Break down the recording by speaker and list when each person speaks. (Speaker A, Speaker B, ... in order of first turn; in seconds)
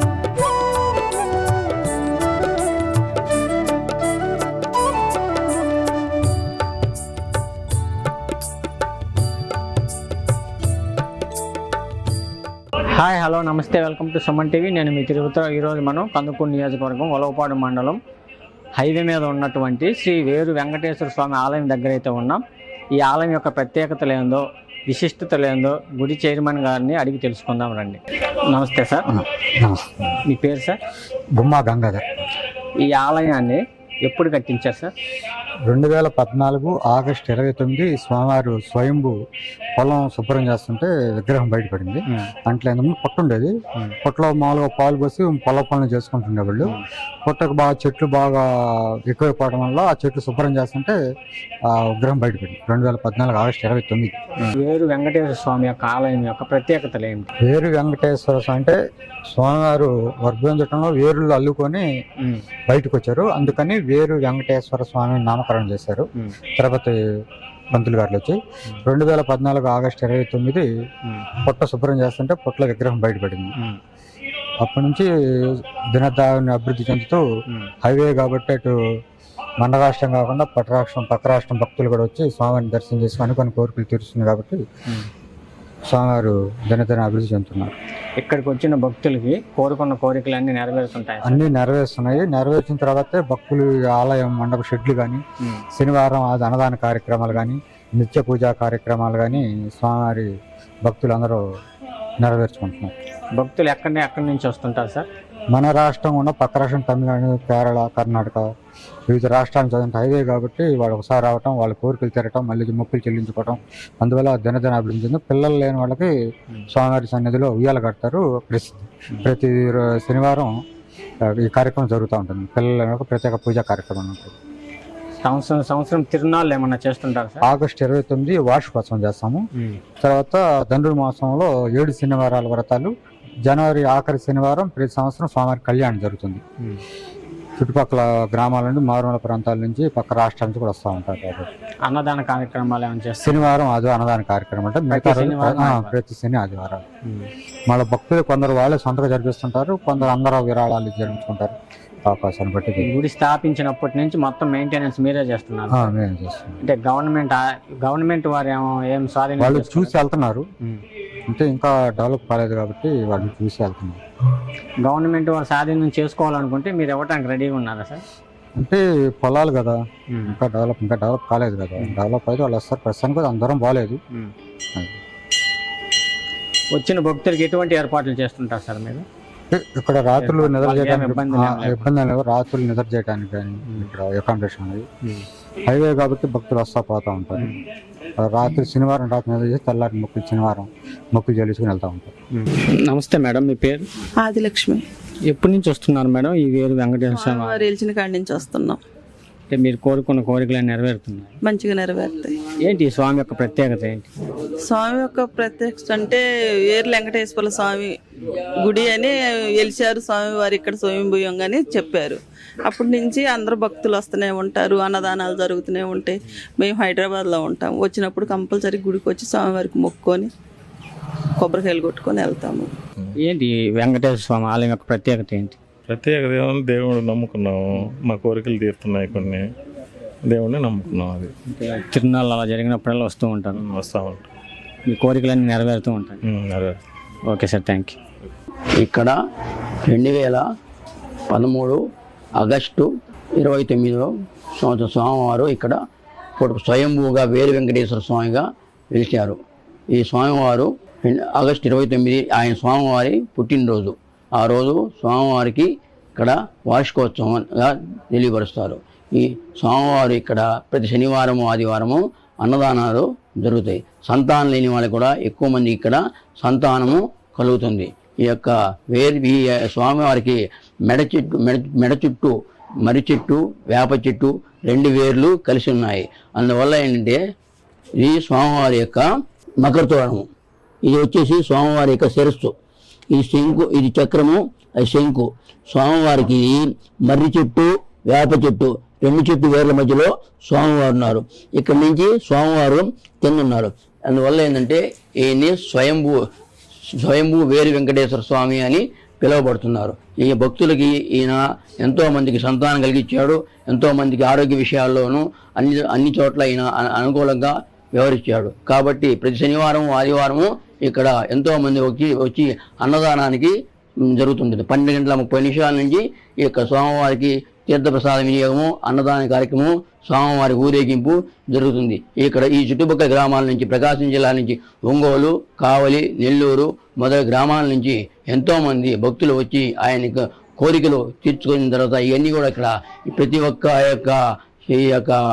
Speaker A: 12.9-18.0, 18.8-22.4, 22.9-29.1, 30.3-30.8, 32.8-34.9, 54.5-57.3, 88.2-91.4, 103.4-105.1, 125.2-127.4, 141.9-143.5, 144.9-145.9, 152.8-155.9, 156.6-160.0, 164.8-168.0, 176.7-179.1, 180.2-181.9, 192.3-193.8, 195.3-197.7, 199.5-201.3, 202.6-204.1, 223.2-225.6, 231.5-233.6, 234.8-236.2, 237.3-238.0
Speaker B: 29.1-30.2, 31.4-32.3, 35.7-39.1, 39.8-43.5, 44.0-48.5, 49.1-51.0, 51.7-54.5, 57.4-58.8, 59.3-61.9, 62.7-67.0, 67.7-70.7, 71.4-73.5, 74.6-77.2, 77.8-78.7, 79.6-84.6, 85.9-87.7, 91.2-95.2, 95.7-100.3, 100.8-101.4, 102.2-102.9, 105.5-108.4, 109.1-116.1, 116.7-120.5, 121.3-124.3, 127.4-129.4, 130.0-132.9, 133.5-136.4, 137.6-141.5, 143.2-146.8, 147.7-151.6, 152.1-152.9, 155.7-156.6, 159.4-160.5, 161.3-164.0, 168.6-174.0, 179.5-184.8, 185.7-187.5, 188.2-192.1
Speaker C: 194.2-194.8, 197.1-198.8, 201.4-202.3, 204.6-220.3, 221.4-222.7
Speaker D: 225.9-229.5, 230.2-231.3, 233.5-234.3, 236.2-236.8
Speaker E: 238.8-239.1, 239.8-240.4, 241.3-241.8, 242.4-245.8, 246.4-249.4, 249.9-277.2, 278.0-279.1, 279.6-280.3, 280.8-282.5, 283.1-296.1, 297.0-313.5, 314.1-335.2